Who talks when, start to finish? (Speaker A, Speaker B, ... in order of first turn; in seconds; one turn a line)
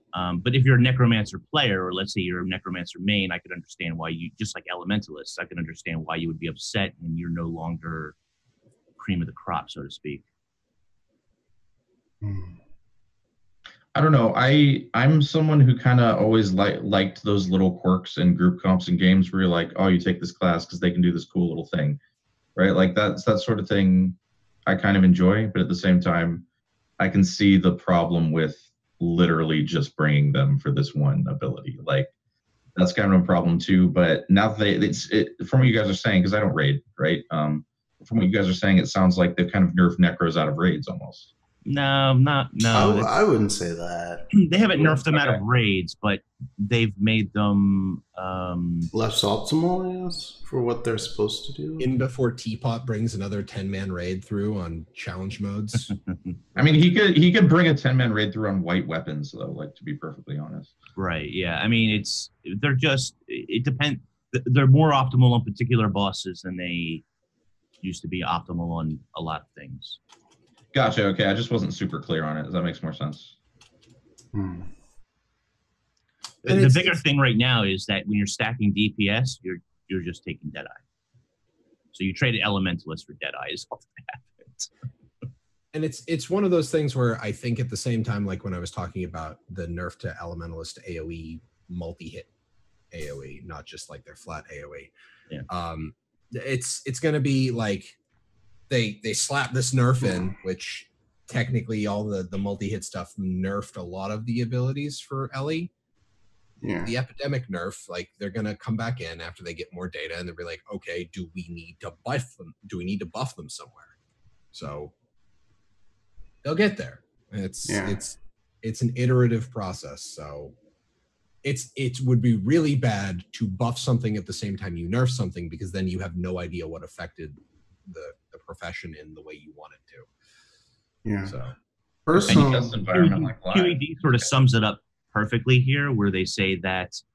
Speaker A: 0.1-8.2
Speaker A: 9.0-10.2
Speaker B: 12.2-12.6
Speaker C: 13.9-22.0
Speaker C: 22.6-26.4
Speaker C: 27.0-32.1
Speaker C: 32.7-41.3
Speaker A: 41.6-43.1
Speaker B: 42.7-45.0
Speaker A: 44.3-48.9
Speaker B: 48.9-51.9
Speaker D: 51.8-55.9
Speaker A: 55.9-56.3
Speaker C: 56.5-60.7
Speaker A: 61.0-67.0
Speaker A: 67.8-70.0
Speaker C: 70.7-73.3
Speaker B: 74.3-74.7
Speaker A: 76.4-80.8
Speaker D: 76.4-77.0
Speaker A: 81.9-84.7
Speaker D: 85.7-92.3
Speaker D: 92.9-94.9
Speaker D: 95.5-98.0
Speaker D: 98.7-105.7
Speaker B: 106.6-106.9
Speaker D: 106.6-113.9
Speaker D: 114.5-114.9
Speaker D: 116.4-120.5
Speaker B: 117.7-118.0
Speaker D: 121.4-130.1
Speaker B: 131.0-131.3
Speaker D: 131.2-131.5
Speaker B: 132.1-132.8
Speaker C: 132.1-134.3
Speaker A: 132.3-137.0